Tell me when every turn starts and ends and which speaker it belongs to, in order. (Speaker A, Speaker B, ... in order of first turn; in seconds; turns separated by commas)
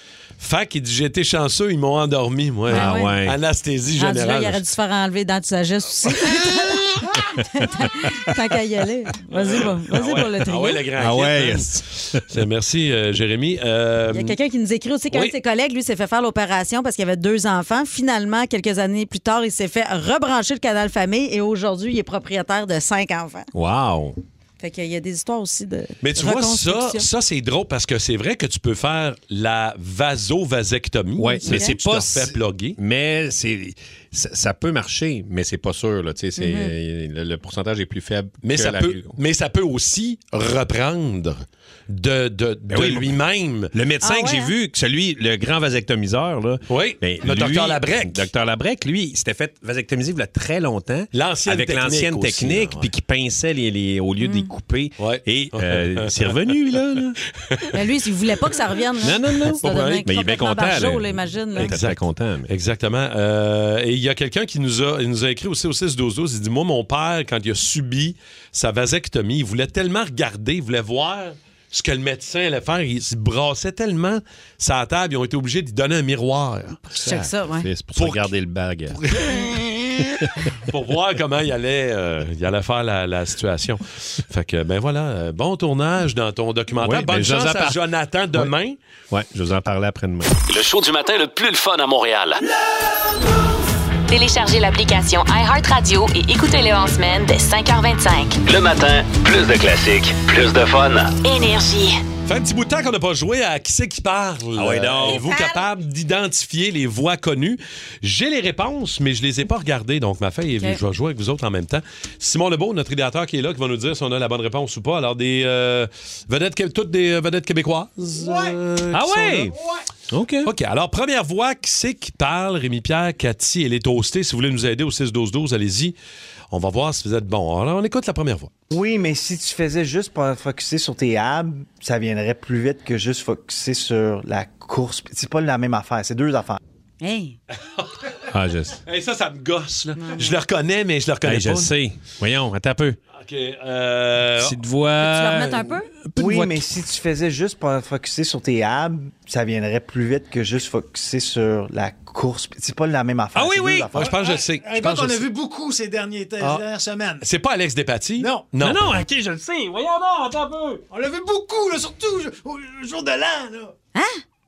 Speaker A: 0.4-4.6, Speaker B: 2.7-3.4, Speaker C: 2.7-3.1, Speaker C: 4.0-10.8, Speaker A: 9.4-14.4, Speaker B: 11.0-12.2, Speaker C: 14.1-23.5, Speaker A: 15.1-15.3, Speaker B: 23.5-24.2, Speaker C: 24.6-27.1, Speaker A: 26.0-32.8, Speaker B: 31.2-39.2, Speaker C: 36.4-36.7, Speaker A: 38.4-43.7, Speaker B: 42.7-43.1, Speaker B: 43.7-57.2, Speaker C: 44.0-44.5, Speaker A: 46.7-48.3, Speaker A: 51.1-52.9, Speaker C: 54.2-54.5, Speaker A: 55.0-56.5, Speaker C: 57.7-61.7, Speaker B: 59.0-62.5, Speaker A: 59.6-60.1, Speaker A: 61.6-76.9, Speaker B: 76.9-79.0, Speaker C: 77.0-77.7, Speaker A: 78.0-78.3, Speaker A: 78.9-80.1, Speaker A: 80.7-88.8, Speaker B: 86.8-87.8, Speaker B: 89.1-90.3, Speaker D: 90.5-92.4, Speaker E: 94.1-98.4, Speaker D: 98.5-101.2, Speaker E: 101.2-102.0, Speaker A: 102.3-119.5, Speaker B: 104.5-105.2, Speaker F: 118.2-118.5, Speaker B: 118.9-119.5, Speaker B: 120.1-120.5, Speaker A: 120.4-126.0, Speaker A: 126.5-128.5, Speaker G: 128.7-136.6, Speaker C: 137.0-137.4, Speaker A: 137.8-138.2, Speaker B: 138.3-138.8, Speaker A: 138.9-141.7, Speaker C: 140.0-140.4, Speaker B: 141.2-143.0, Speaker A: 143.2-144.6, Speaker B: 144.4-146.7, Speaker C: 145.0-145.9, Speaker G: 146.2-154.1, Speaker B: 153.3-153.9, Speaker A: 153.9-155.3, Speaker F: 154.0-157.2, Speaker A: 156.4-156.7, Speaker A: 157.2-158.9, Speaker F: 158.2-158.4, Speaker B: 158.6-160.8, Speaker F: 160.9-163.7, Speaker C: 163.9-164.2